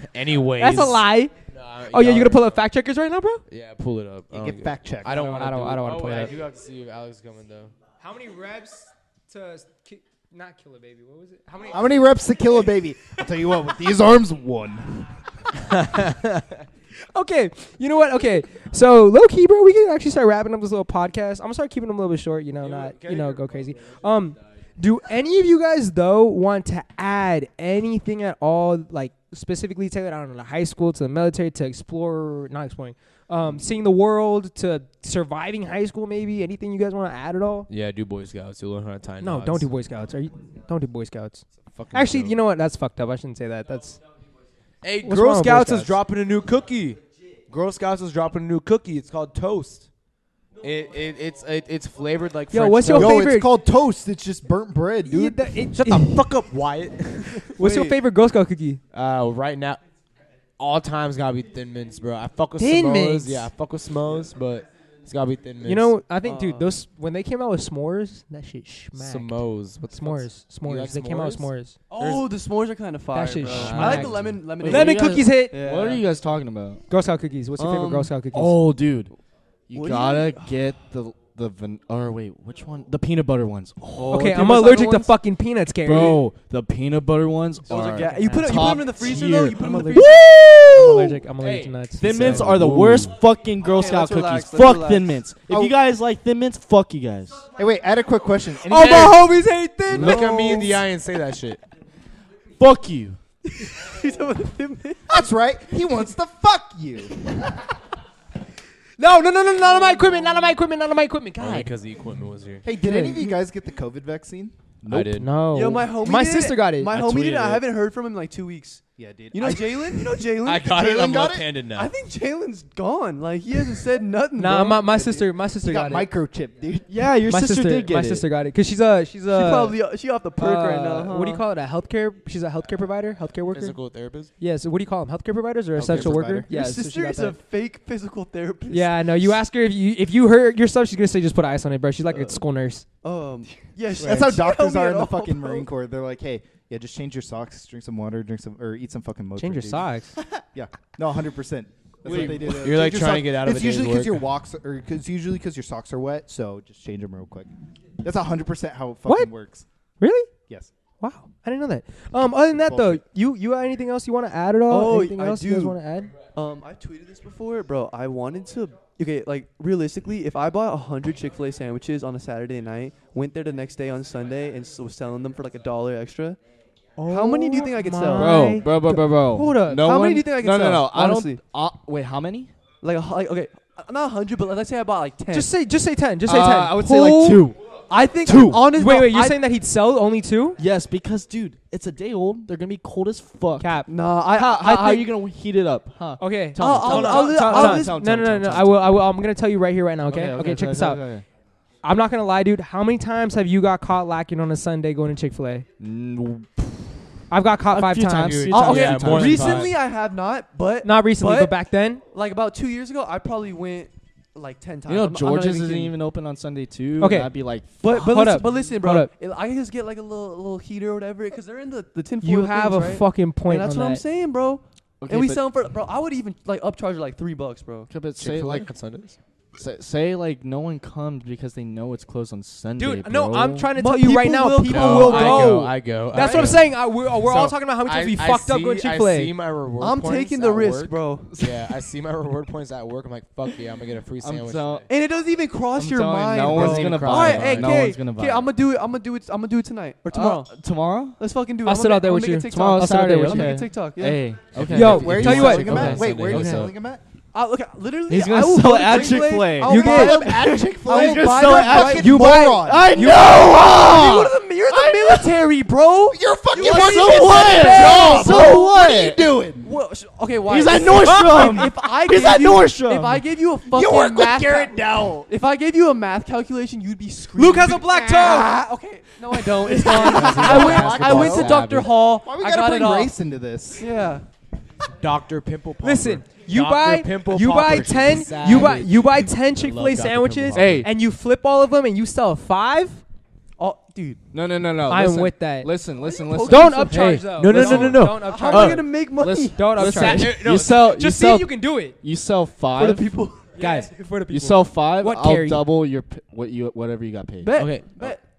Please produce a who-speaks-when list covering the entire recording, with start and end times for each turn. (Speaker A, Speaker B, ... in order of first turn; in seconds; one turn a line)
Speaker A: 0.1-2.6
Speaker B: 0.6-1.3
Speaker B: 1.9-3.4
Speaker A: 3.5-7.7
Speaker C: 4.3-5.2
Speaker B: 5.1-6.3
Speaker B: 8.0-11.9
Speaker C: 11.7-15.1
Speaker A: 15.8-16.4
Speaker B: 17.1-37.7
Speaker A: 22.6-23.5
Speaker A: 37.7-39.7
Speaker B: 39.2-44.0
Speaker A: 41.7-42.4
Speaker A: 44.8-49.9
Speaker B: 45.0-46.0
Speaker A: 50.6-53.3
Speaker B: 52.5-53.5
Speaker C: 52.9-55.5
Speaker B: 55.0-56.2
Speaker A: 55.8-57.5
Speaker D: 57.4-58.0
Speaker B: 57.5-58.8
Speaker A: 58.9-59.8
Speaker A: 60.6-65.9
Speaker B: 62.6-63.5
Speaker B: 65.6-71.8
Speaker D: 66.2-66.7
Speaker A: 68.9-72.3
Speaker D: 71.9-76.1
Speaker B: 73.1-75.6
Speaker A: 73.5-74.4
Speaker E: 74.5-76.8
Speaker B: 76.9-78.6
Speaker D: 77.6-78.2
Speaker E: 78.3-79.1
Speaker E: 79.7-85.1
Speaker D: 79.7-80.6
Speaker B: 84.0-86.2
Speaker D: 84.3-84.7
Speaker E: 85.8-97.5
Speaker D: 87.6-90.2
Speaker B: 88.0-89.0
Speaker B: 89.5-92.5
Speaker A: 92.0-93.1
Speaker D: 93.6-95.3
Speaker C: 95.4-95.8
Speaker C: 97.5-99.3
Speaker B: 98.6-100.6
Speaker A: 98.8-99.1
Speaker A: 99.9-101.6
Speaker D: 99.9-100.8
Speaker E: 102.6-103.2
Speaker D: 103.6-105.0
Speaker C: 105.1-107.6
Speaker B: 109.0-111.7
Speaker A: 111.4-112.7
Speaker C: 112.6-115.2
Speaker B: 112.7-113.3
Speaker A: 114.9-115.3
Speaker B: 115.1-117.0
Speaker D: 115.5-120.7
Speaker E: 116.9-117.6
Speaker C: 119.0-120.1
Speaker A: 120.4-121.9
Speaker C: 120.7-121.5
Speaker D: 121.7-125.2
Speaker B: 124.3-126.1
Speaker C: 125.6-127.0
Speaker E: 126.9-128.2
Speaker B: 127.3-129.8
Speaker D: 129.3-131.4
Speaker B: 130.3-133.8
Speaker A: 133.5-134.3
Speaker B: 134.4-137.4
Speaker C: 135.8-136.5
Speaker D: 135.9-139.4
Speaker B: 138.7-142.8
Speaker D: 142.1-142.4
Speaker D: 143.0-145.7
Speaker C: 144.0-149.8
Speaker B: 149.4-150.1
Speaker C: 150.5-157.5
Speaker D: 152.0-152.7
Speaker A: 152.1-154.3
Speaker C: 158.0-159.6
Speaker B: 159.1-159.3
Speaker B: 160.0-160.3
Speaker B: 161.0-166.1
Speaker C: 162.7-163.0
Speaker D: 164.7-165.8
Speaker D: 166.3-176.4
Speaker B: 177.0-179.9
Speaker D: 177.1-178.6
Speaker E: 178.1-182.5
Speaker D: 179.8-181.4
Speaker D: 182.8-185.5
Speaker B: 185.3-187.5
Speaker E: 186.2-187.6
Speaker D: 187.9-189.4
Speaker E: 188.2-188.8
Speaker B: 188.7-190.6
Speaker E: 190.6-198.8
Speaker B: 193.6-195.1
Speaker D: 193.9-194.9
Speaker B: 196.2-201.0
Speaker D: 196.6-198.1
Speaker E: 200.1-201.2
Speaker B: 201.8-205.7
Speaker E: 205.8-206.9
Speaker B: 207.3-209.7
Speaker E: 207.7-209.7
Speaker A: 208.2-209.7
Speaker D: 208.5-211.6
Speaker B: 210.8-212.0
Speaker D: 212.1-216.0
Speaker E: 214.9-217.8
Speaker B: 217.0-219.1
Speaker D: 217.8-227.9
Speaker B: 222.2-224.0
Speaker E: 225.0-225.4
Speaker E: 227.9-228.7
Speaker A: 228.2-229.2
Speaker E: 229.6-233.7
Speaker B: 232.8-239.3
Speaker D: 233.7-236.5
Speaker A: 234.7-244.8
Speaker D: 239.8-241.3
Speaker E: 244.2-244.9
Speaker D: 244.9-250.6
Speaker E: 245.7-248.5
Speaker A: 246.4-247.7
Speaker E: 250.1-251.2
Speaker D: 251.2-254.4
Speaker B: 251.6-253.6
Speaker E: 252.5-256.7
Speaker A: 254.5-256.7
Speaker B: 254.7-255.7
Speaker C: 254.8-257.0
Speaker D: 257.3-268.7
Speaker E: 258.1-264.3
Speaker B: 259.6-260.2
Speaker C: 259.8-263.0
Speaker B: 261.7-263.2
Speaker C: 264.7-265.3
Speaker C: 266.1-269.7
Speaker E: 266.6-269.3
Speaker D: 269.6-283.1
Speaker E: 270.4-273.2
Speaker B: 271.0-271.7
Speaker C: 273.6-275.3
Speaker B: 277.3-278.5
Speaker C: 279.6-281.6
Speaker B: 279.9-280.3
Speaker E: 280.0-281.5
Speaker A: 280.1-281.9
Speaker C: 282.2-283.9
Speaker D: 283.8-284.2
Speaker A: 285.0-290.9
Speaker B: 285.8-293.0
Speaker E: 290.5-290.9
Speaker D: 293.6-294.2
Speaker E: 294.3-297.0
Speaker B: 294.9-295.7
Speaker D: 296.0-300.2
Speaker B: 296.4-299.0
Speaker A: 296.9-298.8
Speaker E: 299.1-303.1
Speaker B: 299.5-301.9
Speaker A: 300.2-300.9
Speaker D: 302.7-303.6
Speaker B: 303.5-305.6
Speaker A: 303.6-303.9
Speaker E: 304.3-307.5
Speaker D: 307.4-308.2
Speaker A: 307.6-308.2